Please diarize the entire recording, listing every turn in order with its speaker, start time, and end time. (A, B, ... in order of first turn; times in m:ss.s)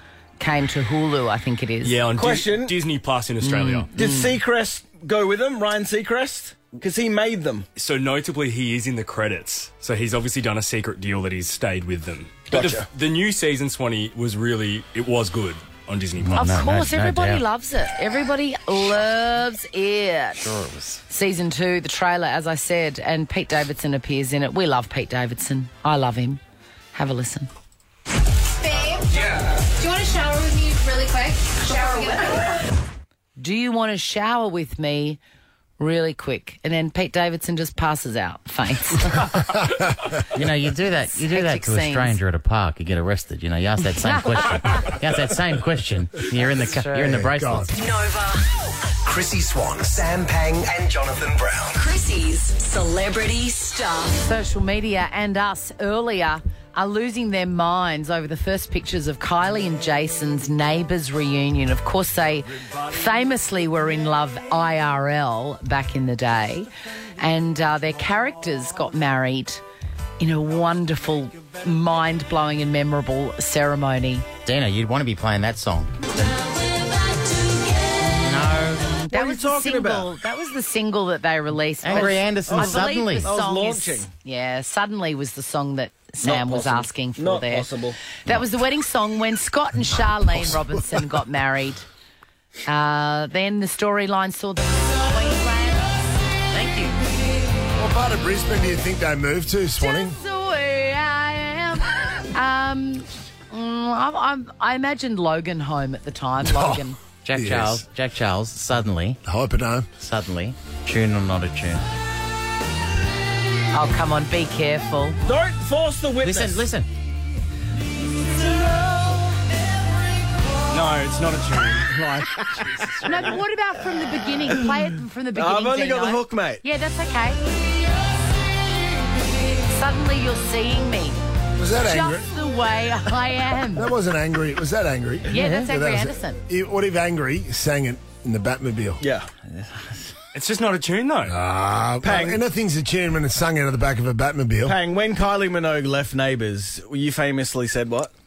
0:00.4-0:02.0 A
0:01.8-0:03.9 B
0:02.2-0:02.8 C
0:03.4-0:04.3 A
0:03.9-0:07.6 C
0:07.8-0:16.5 B
0:12.5-0:12.8 C
0:16.2-0:17.4 D
0:16.3-0:20.5 A
0:20.4-0:21.0 D
0:21.1-0:26.4 A
0:26.9-0:27.5 A
0:28.6-0:32.6 E
0:33.4-0:35.2 A
0:35.8-0:39.5 A
0:40.3-0:47.7 D
0:41.1-0:42.2 A
0:44.0-0:44.9 A
0:46.6-0:47.1 A
0:47.0-0:47.7 F
0:47.7-0:48.4 E
0:49.0-0:51.8 G
0:51.7-0:54.2 E
0:54.2-1:09.6 A
1:10.2-1:14.3 A
1:14.4-1:16.6 D
1:18.1-1:19.0 D
1:18.9-1:27.7 A
1:19.1-1:20.1 C
1:21.8-1:23.3 D
1:21.9-1:24.1 C
1:26.2-1:28.0 C
1:28.2-1:31.8 A
1:30.3-1:31.0 F
1:32.7-1:35.9 A
1:36.5-1:37.0 D
1:37.8-1:40.2 F
1:39.8-1:47.0 A
1:46.4-1:47.8 F
1:47.2-1:49.2 D
1:49.2-1:49.9 F
1:50.0-1:51.8 D
1:53.7-1:55.2 A
1:55.2-1:56.6 C
1:56.2-1:56.9 D
2:00.7-2:02.1 B
2:03.0-2:07.4 A
2:05.3-2:06.6 C
2:09.6-2:11.2 A
2:11.6-2:12.3 F
2:11.8-2:13.9 A
2:13.7-2:19.0 F
2:15.3-2:16.4 A
2:19.0-2:19.3 C
2:19.5-2:19.9 D
2:20.3-2:21.4 B
2:21.2-2:24.8 F
2:22.0-2:22.4 C
2:24.6-2:28.1 C